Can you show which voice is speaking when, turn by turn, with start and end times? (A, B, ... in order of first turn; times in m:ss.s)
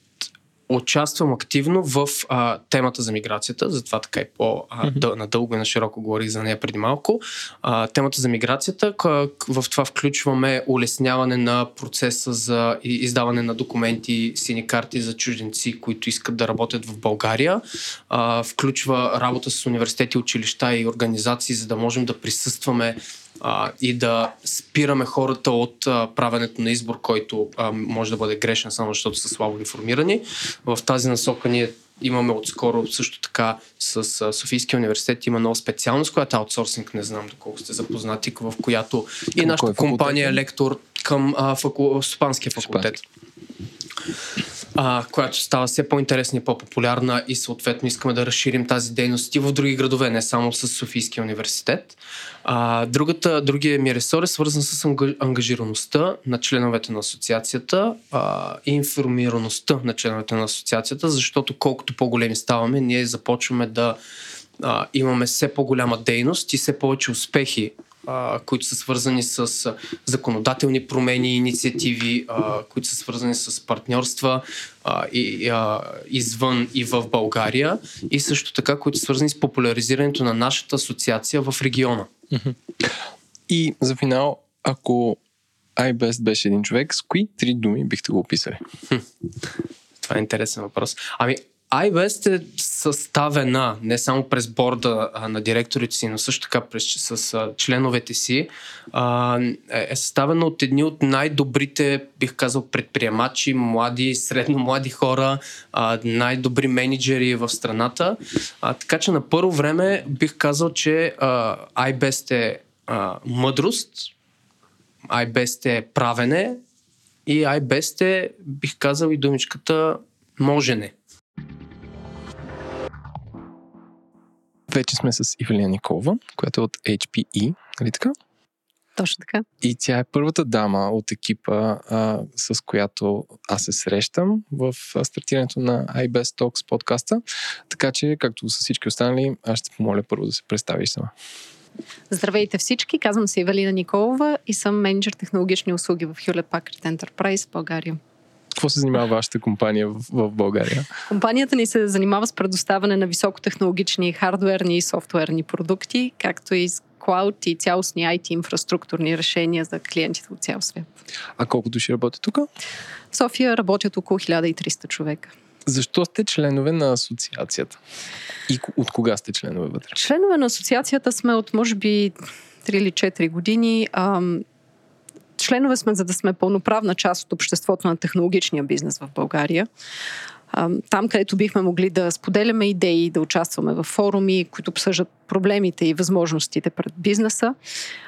0:00.7-0:43.0 A
0:39.4-0:40.4 B
0:42.6-0:43.0 B
0:44.7-1:04.0 A
1:04.6-1:22.1 A
1:22.3-1:22.9 B
1:23.5-1:25.2 B
1:25.8-1:28.6 B
1:30.0-1:54.1 A
1:55.1-1:56.6 A
1:57.2-2:00.9 A
2:04.7-2:08.1 B
2:09.0-2:09.4 C
2:09.6-2:21.1 B
2:22.1-2:28.0 C
2:28.6-2:30.9 B
2:31.1-2:40.9 C
2:41.4-2:42.5 B
2:43.1-2:45.3 C
2:45.7-2:47.8 B
2:48.5-2:50.0 B
2:50.0-2:54.4 C
2:55.4-2:59.7 C
3:00.5-3:07.6 C